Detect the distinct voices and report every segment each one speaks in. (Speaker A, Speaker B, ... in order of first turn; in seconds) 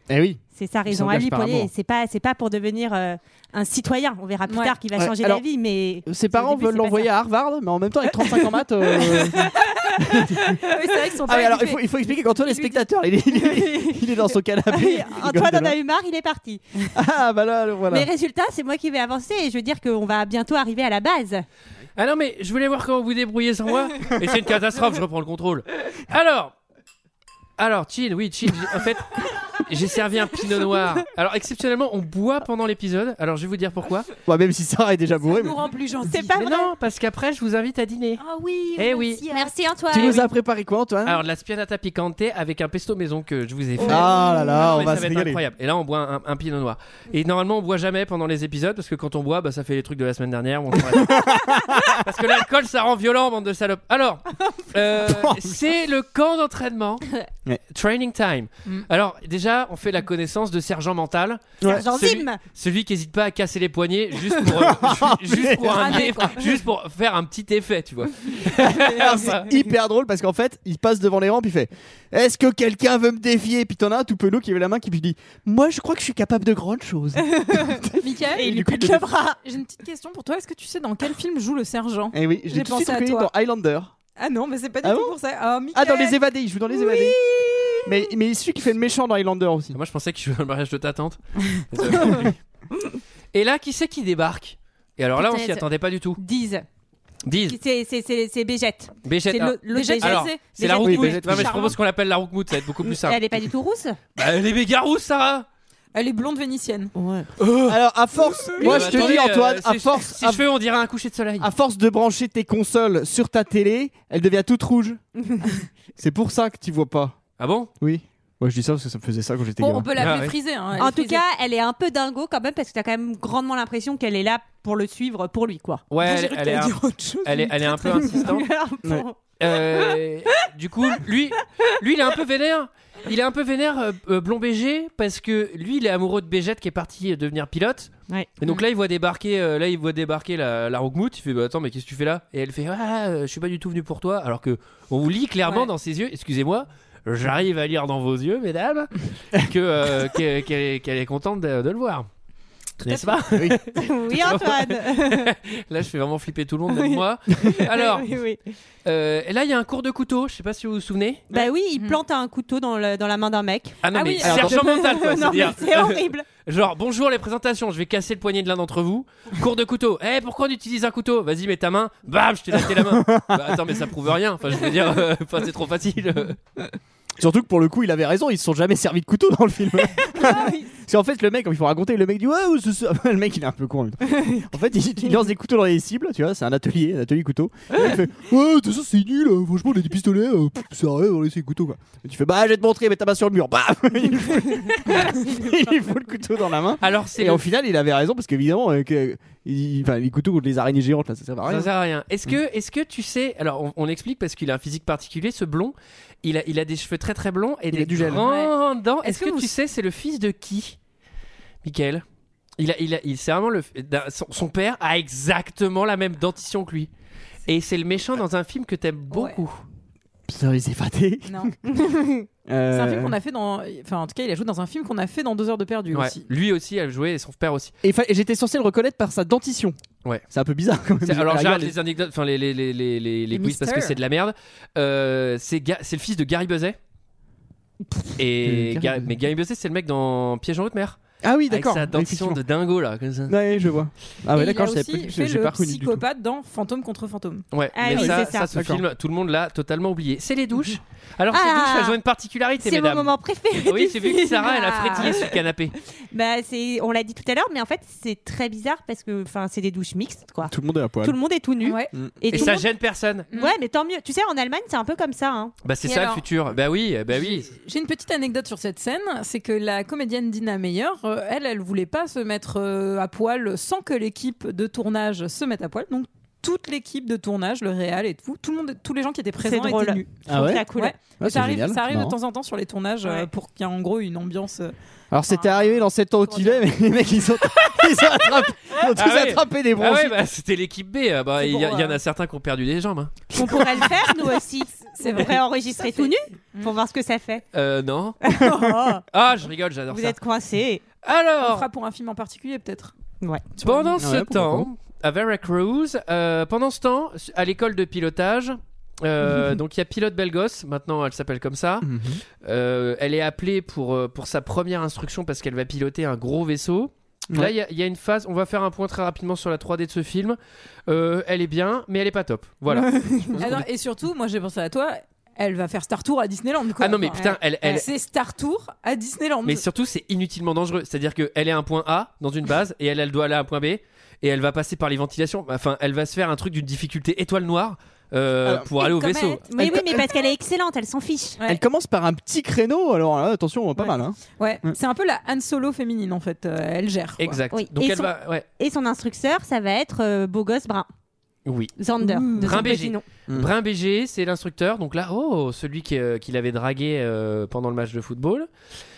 Speaker A: 0.1-1.7, 5.0-5.4, 6.0-10.6, 11.2-15.8, 16.9-18.1, 34.2-35.5, 39.9-41.2, 43.8-45.4, 50.7-52.0, 55.0-55.5, 61.6-61.9, 64.5-66.0, 68.5-79.1, 82.1-83.9, 84.8-85.1, 85.7-87.2, 87.8-89.8, 100.8-101.8, 107.7-110.4, 111.4-115.0, 116.0-117.2, 117.8-119.9, 153.3-153.6, 164.2-164.6, 172.5-173.7, 177.2-201.7, 207.7-208.2, 220.3-221.7, 222.4-223.2, 227.8-229.8, 230.3-231.7, 238.4-239.1, 241.2-242.4, 243.3-246.0, 247.9-248.8, 260.5-261.2, 280.3-282.1, 285.1-290.2, 293.4-293.6, 304.0-304.7, 311.8-312.2, 323.4-323.6, 339.6-339.9, 341.4-344.7
Speaker B: 0.6-7.1, 13.6-13.8, 14.7-16.9, 17.9-21.4, 36.0-36.7, 39.3-40.3, 43.8-44.7, 61.6-62.4, 77.3-77.8, 78.3-79.4, 86.9-87.8, 95.2-95.6, 96.2-96.7, 97.4-101.2, 102.9-104.0, 107.0-107.3, 115.3-115.6, 120.8-125.8, 127.9-129.5, 138.1-138.6, 153.7-155.3, 156.7-158.4, 161.3-166.3, 180.1-180.7, 221.7-222.1, 247.7-248.5, 251.3-251.9, 252.6-255.3, 256.1-262.7, 263.3-265.5, 279.4-280.9, 283.0-283.3, 291.4-291.9, 293.3-297.4, 298.2-299.0, 299.9-300.8, 322.8-323.3, 327.1-327.9, 339.5-341.4, 347.5-350.9, 351.8-353.0
Speaker C: 4.5-4.7, 10.6-11.8, 12.5-12.7, 35.2-36.5, 38.2-39.5, 65.6-66.6, 78.0-78.5, 79.4-83.3, 84.2-86.2, 99.7-101.8, 105.9-106.9, 108.4-109.2, 119.6-121.2, 126.0-128.2, 163.9-164.4, 208.1-209.5, 219.1-219.4, 221.2-221.5, 222.7-226.2, 233.3-234.0, 244.3-247.4, 254.7-255.1, 261.6-262.4, 263.3-263.6, 265.8-266.2, 267.5-280.2, 280.7-284.7, 285.3-286.6, 295.0-296.7, 301.4-302.9, 303.6-304.0, 323.4-329.6, 338.7-340.2, 343.8-347.4, 352.0-352.6
Speaker D: 21.9-26.5, 27.6-34.1, 36.4-38.2, 38.8-39.2, 41.0-51.4, 52.0-57.0, 57.7-69.5, 89.7-92.4, 93.3-96.2, 97.2-97.6, 99.0-103.2, 104.2-105.5, 107.4-107.8, 108.6-111.5, 117.4-117.7, 120.0-120.3, 125.9-128.4, 129.4-152.1, 152.8-158.1, 158.8-161.2, 163.8-176.4, 196.8-197.4, 201.4-210.8, 211.6-212.0, 212.6-216.9, 217.4-219.6, 225.9-227.7, 231.0-236.8, 238.2-243.4, 247.5-253.1, 253.6-255.7, 262.3-263.3, 265.6-267.5, 288.8-293.3, 297.5-298.2, 299.1-300.2, 301.0-301.6, 303.6-323.6, 326.8-327.9, 329.4-339.4, 347.2-348.4, 351.4-351.7, 352.4-358.5